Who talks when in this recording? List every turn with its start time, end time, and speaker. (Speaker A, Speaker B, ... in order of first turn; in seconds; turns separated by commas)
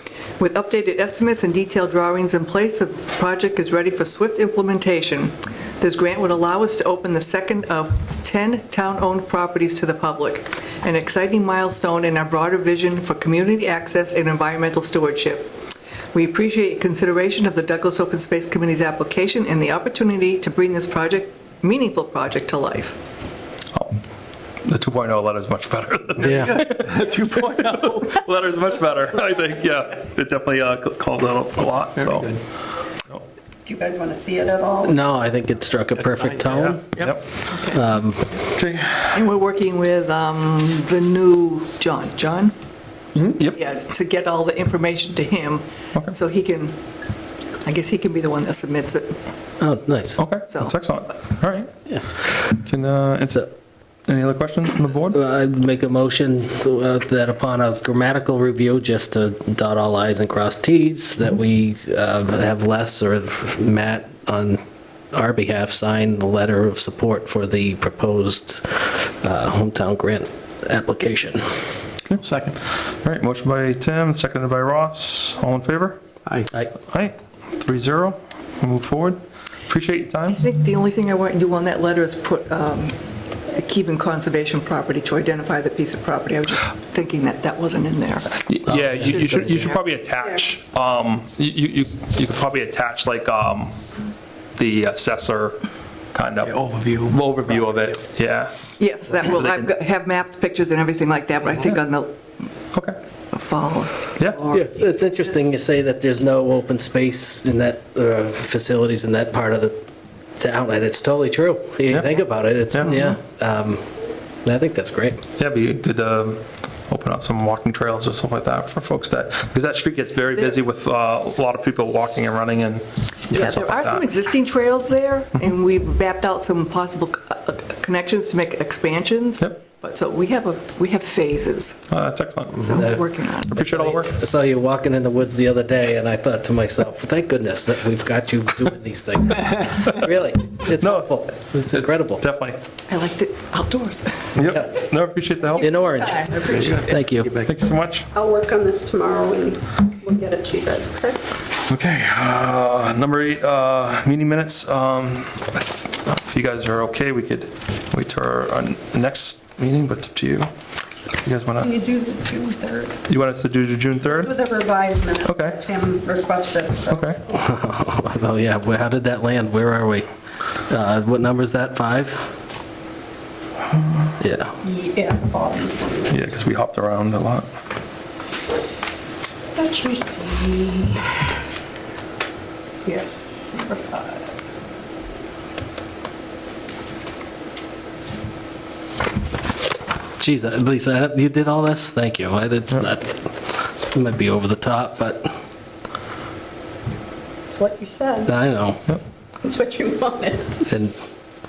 Speaker A: 0.4-15.5, Speaker A: 16.1-23.0, Speaker B: 24.6-32.4, Speaker C: 26.2-26.6, Speaker D: 26.3-28.2, Speaker D: 31.9-32.4, Speaker E: 33.6-35.0, Speaker C: 34.8-36.9, Speaker D: 36.2-37.2, Speaker B: 37.0-37.2, Speaker A: 37.5-37.8, Speaker C: 37.7-38.4, Speaker B: 38.5-39.2, Speaker A: 39.1-42.5, Speaker A: 43.4-46.8, Speaker A: 47.6-49.2, Speaker C: 49.6-50.2, Speaker B: 50.2-51.7, Speaker A: 50.5-50.8, Speaker B: 52.5-53.5, Speaker B: 54.1-55.2, Speaker C: 55.1-64.6, Speaker C: 65.1-71.5, Speaker B: 72.0-76.0, Speaker D: 72.2-72.6, Speaker B: 76.8-80.4, Speaker A: 80.3-88.5, Speaker B: 88.5-93.7, Speaker A: 89.2-89.7, Speaker B: 94.5-95.6, Speaker B: 96.1-96.5, Speaker D: 96.4-98.0, Speaker B: 97.1-98.5, Speaker A: 98.8-102.2, Speaker B: 99.2-99.7, Speaker A: 103.3-104.7, Speaker C: 104.5-109.8, Speaker C: 110.4-113.8, Speaker B: 112.7-113.0, Speaker C: 114.4-115.2, Speaker B: 115.4-124.0, Speaker A: 123.3-131.8, Speaker B: 131.9-134.1, Speaker A: 132.6-134.0, Speaker C: 132.7-133.0, Speaker C: 133.5-142.2, Speaker B: 140.8-142.6, Speaker A: 142.9-144.4, Speaker B: 144.3-145.7, Speaker C: 145.6-146.3, Speaker E: 145.6-146.9, Speaker B: 146.5-148.1, Speaker D: 146.6-147.5, Speaker C: 146.9-147.3, Speaker E: 148.1-151.3, Speaker B: 151.7-160.5, Speaker B: 161.2-161.7, Speaker E: 161.6-163.0, Speaker B: 163.1-164.3, Speaker E: 164.1-167.2, Speaker B: 165.2-165.6, Speaker B: 166.9-167.2, Speaker C: 167.3-170.1, Speaker C: 170.7-172.3, Speaker B: 173.7-174.1, Speaker C: 174.2-174.6, Speaker E: 174.6-176.1, Speaker B: 176.1-177.5, Speaker E: 179.5-181.2, Speaker E: 182.8-184.3, Speaker C: 190.2-195.4, Speaker E: 197.5-198.3, Speaker C: 198.2-198.8, Speaker E: 199.4-200.7, Speaker C: 200.7-200.9